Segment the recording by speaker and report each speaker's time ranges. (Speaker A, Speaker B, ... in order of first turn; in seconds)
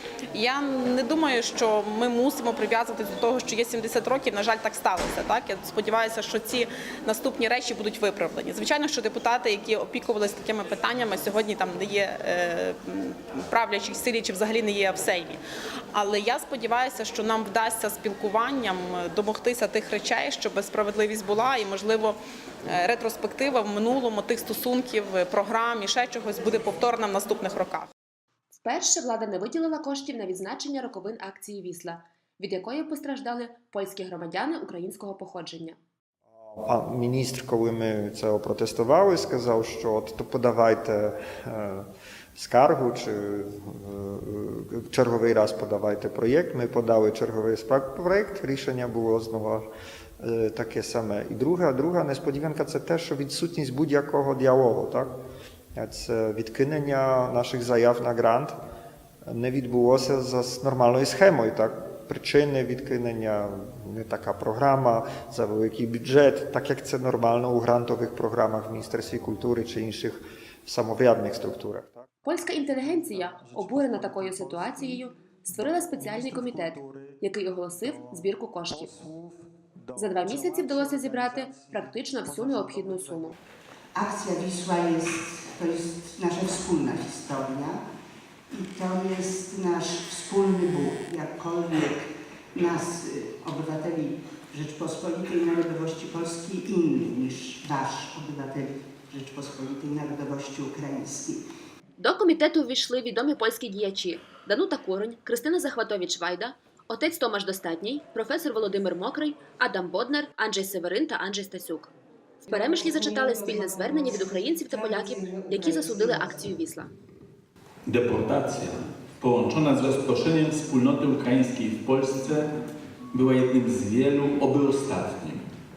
Speaker A: 0.3-27.9
Speaker B: 28.5-35.8, 72.2-79.0, 80.0-83.3, 102.0-111.9, 112.5-116.9
Speaker C: 36.4-49.7, 50.2-55.2, 55.8-58.6, 59.3-72.0
Speaker D: 84.0-87.8, 88.5-101.4
Speaker E: 117.9-122.5, 123.1-125.5